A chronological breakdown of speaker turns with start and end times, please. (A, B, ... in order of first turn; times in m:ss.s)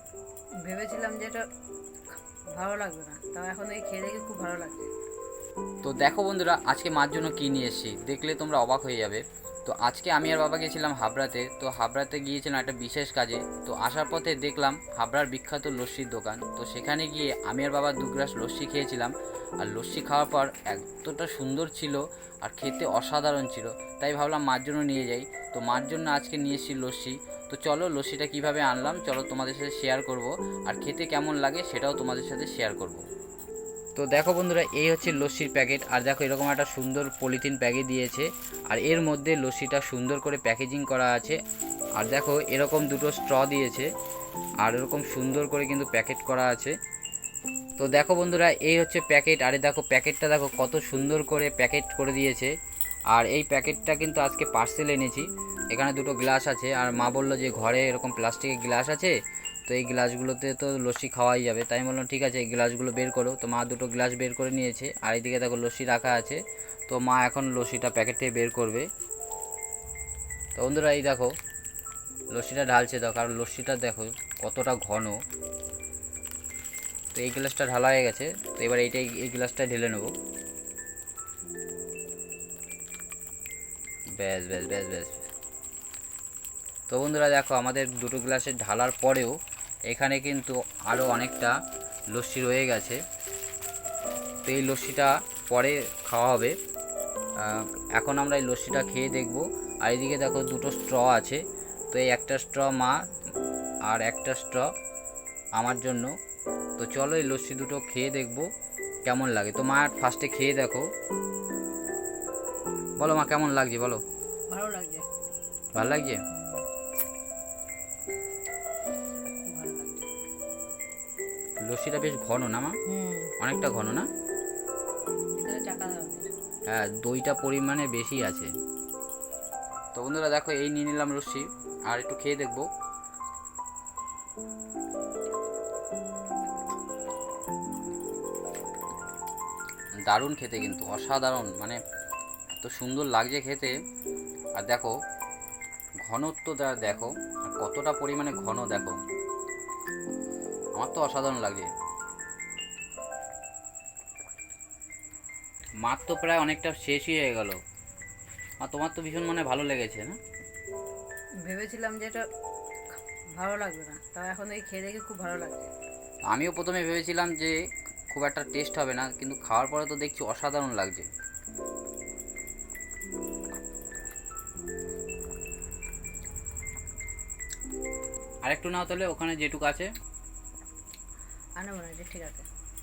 0:00.6-0:01.4 A
0:02.6-0:04.9 A
0:05.8-0:33.0 B
0:34.0-0:41.4 B
0:42.0-0:43.9 B
0:44.6-0:46.8 B
0:47.8-0:52.5 B
0:53.1-1:08.9 B
1:10.6-1:11.3 B
1:12.3-1:15.2 B
1:17.2-1:20.1 B
1:24.2-1:25.2 B
1:26.9-1:29.4 B
1:29.9-1:31.6 B
1:32.1-1:33.0 B
1:34.4-1:36.6 B
1:37.4-1:43.1 B
1:43.9-1:44.7 B
1:45.6-1:46.1 B
1:46.8-1:48.5 B
1:49.0-1:50.9 B
1:53.0-1:54.0 B
1:54.5-1:55.0 A
1:55.8-1:56.2 B
1:56.3-1:56.6 A
1:59.5-2:00.1 A
2:01.6-2:02.8 B
2:02.9-2:03.3 A
2:03.4-2:04.1 B
2:05.4-2:06.3 A
2:06.7-2:08.5 B
2:10.0-2:12.7 B
2:20.1-2:21.8 B
2:22.6-2:23.8 B
2:24.6-2:24.9 B
2:26.0-2:29.0 B
2:30.8-2:31.7 B
2:35.8-2:37.6 B
2:38.6-2:40.2 B
2:41.4-2:42.2 A
2:43.4-2:45.7 A
2:46.3-2:47.6 B
2:48.1-2:51.1 B
2:58.4-2:59.9 B
3:01.6-3:02.4 A